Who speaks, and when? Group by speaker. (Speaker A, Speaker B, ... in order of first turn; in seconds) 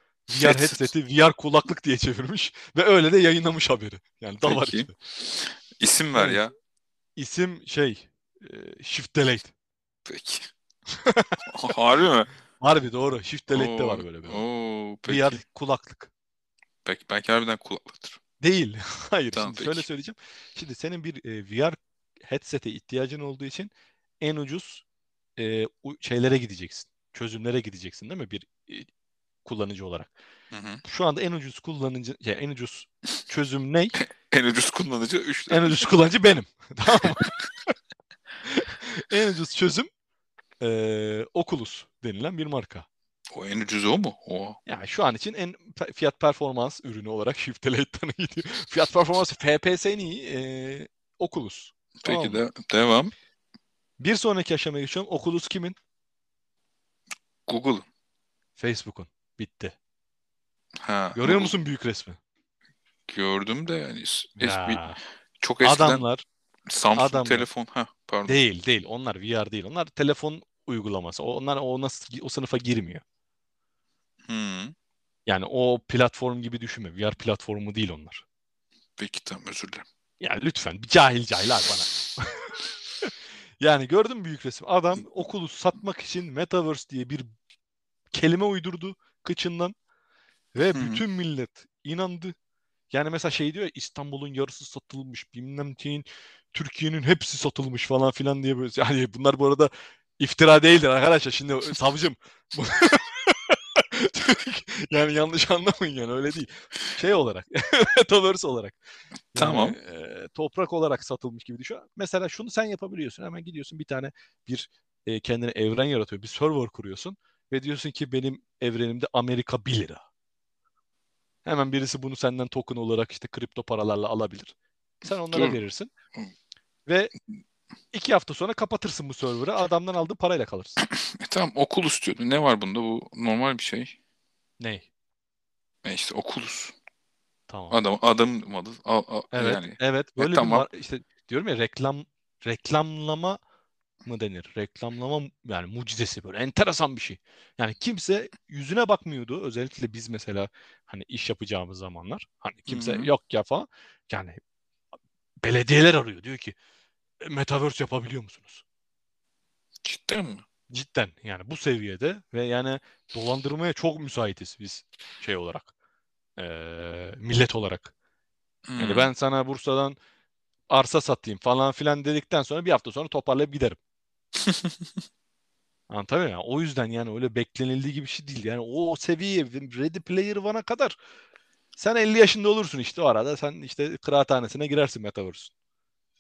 Speaker A: 0.3-4.9, 6.2-6.4, 7.2-9.5, 10.9-11.4, 12.6-14.4, 15.1-16.1, 18.4-23.7, 24.2-24.8, 25.4-28.9, 29.4-30.1, 30.8-34.0, 35.5-37.7, 38.4-39.9, 40.6-42.9, 44.7-52.4, 54.0-55.8, 58.6-59.8, 61.1-62.2, 64.4-65.0, 65.6-66.2, 67.0-67.5, 68.3-73.0, 75.3-78.2, 80.2-87.3, 88.1-89.8, 90.5-92.3, 92.9-108.8, 109.3-120.0, 121.5-125.9, 126.9-127.1, 127.9-130.8, 134.6-134.9, 137.5-137.8, 139.3-143.4, 144.1-154.4, 155.4-156.6, 157.2-158.6, 160.7-165.7, 166.4-167.9, 168.8-170.0, 170.7-173.8, 175.9-181.0, 181.8-185.5
Speaker B: 0.3-0.9, 4.4-6.5, 10.1-10.5, 11.5-12.3, 13.5-15.4, 16.9-18.2, 19.3-19.9, 30.5-30.8, 34.0-35.9, 43.3-44.6, 52.0-53.1, 57.5-57.9, 60.8-61.5, 63.1-66.0, 66.7-68.4, 74.3-74.7, 79.0-79.8, 90.6-91.0, 109.3-109.8, 125.3-125.6, 130.8-133.9, 135.8-136.8, 137.7-140.7, 152.7-153.1, 159.8-160.4, 168.7-169.1, 174.4-174.7